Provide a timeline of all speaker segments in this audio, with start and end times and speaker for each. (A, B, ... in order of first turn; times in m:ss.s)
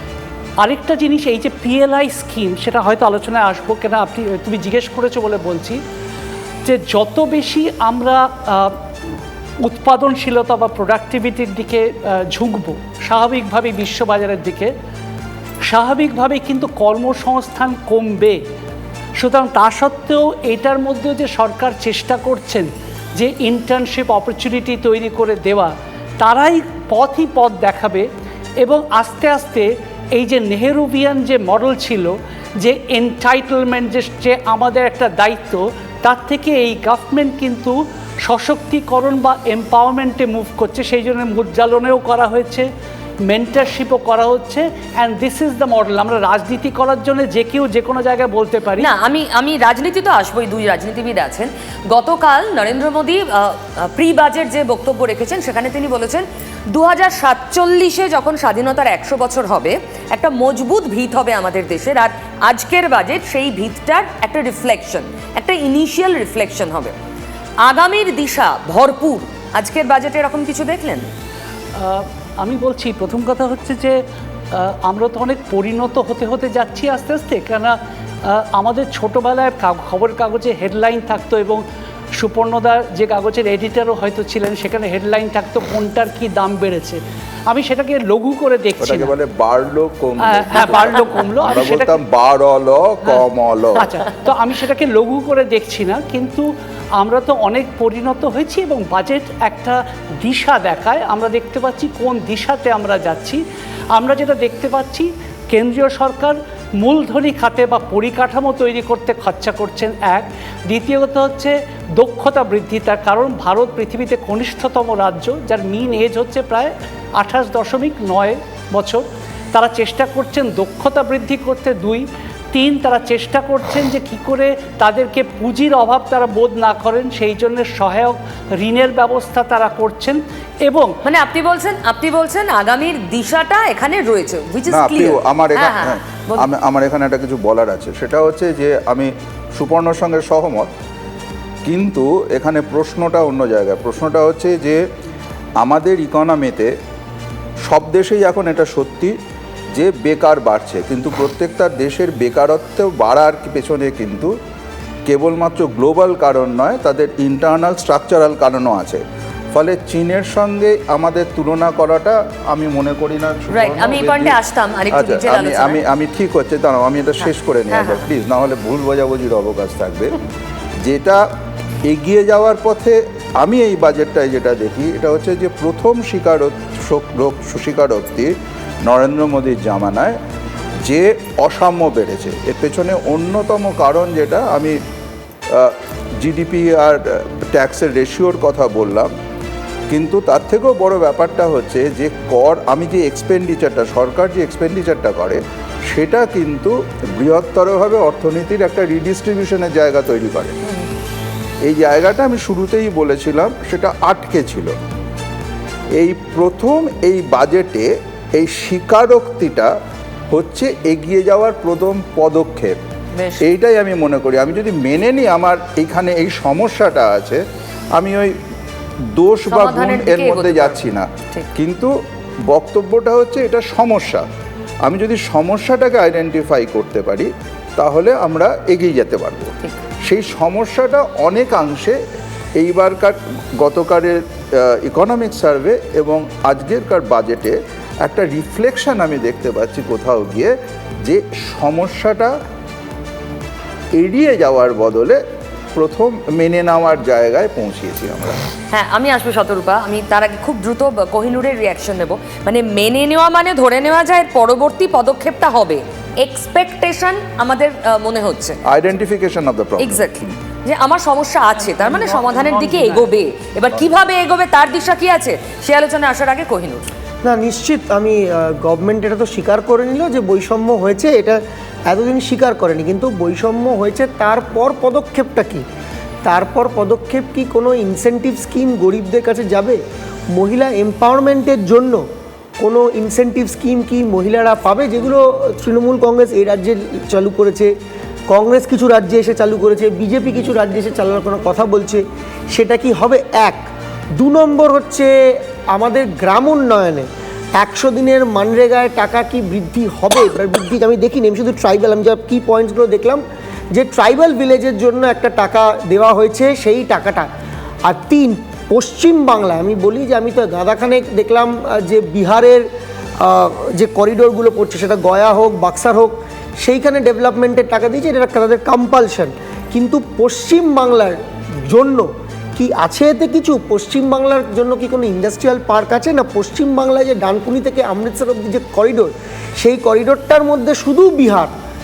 0:00.6-0:05.8 A
0:06.6-0:08.8 A
0:09.6-0:14.7 A
0:15.7-0:18.4 A
0:19.2-0:28.1 A
0:28.6-0:42.7 A
0:43.3-0:48.9 A
0:48.8-1:06.9 B
1:07.6-1:11.1 B
1:11.8-1:14.0 A
1:14.5-1:21.6 A
1:22.2-1:29.1 A
1:28.8-1:33.9 C
1:30.2-1:32.0 A
1:33.7-1:43.4 A
1:43.9-2:10.9 A
2:11.0-2:16.5 B
2:14.7-2:20.7 C
2:21.6-2:24.8 C
2:25.6-2:26.7 C
2:27.7-2:29.1 C
2:29.7-2:34.3 C
2:35.1-2:44.4 C
2:43.5-2:45.8 B
2:44.9-2:50.2 C
2:47.2-2:48.0 B
2:50.8-2:51.2 C
2:51.8-2:58.3 C
2:58.8-3:00.2 C
3:00.8-3:04.8 C
3:05.5-3:07.0 C
3:07.5-3:09.1 C
3:09.9-3:20.6 C
3:21.6-3:24.7 C
3:26.0-3:29.7 C
3:30.3-3:32.8 C
3:33.2-3:33.4 B
3:33.4-3:37.4 C
3:38.0-3:38.3 C
3:39.1-3:41.9 C
3:39.5-3:41.5 B
3:42.5-3:44.3 C
3:44.8-3:52.0 C
3:52.6-4:00.5 C
4:01.0-4:02.3 C
4:04.0-4:05.2 C
4:05.7-4:08.5 C
4:08.7-4:18.6 B
4:18.6-4:20.3 C
4:19.8-4:26.9 B
4:21.7-4:23.1 A
4:27.2-4:35.6 D
4:36.2-4:39.8 D
4:40.3-4:42.0 D
4:42.6-4:47.7 D
4:48.3-4:53.6 D
4:54.2-4:55.1 D
4:55.7-5:03.2 D
5:03.7-5:07.3 D
5:07.9-5:12.6 D
5:13.2-5:31.5 D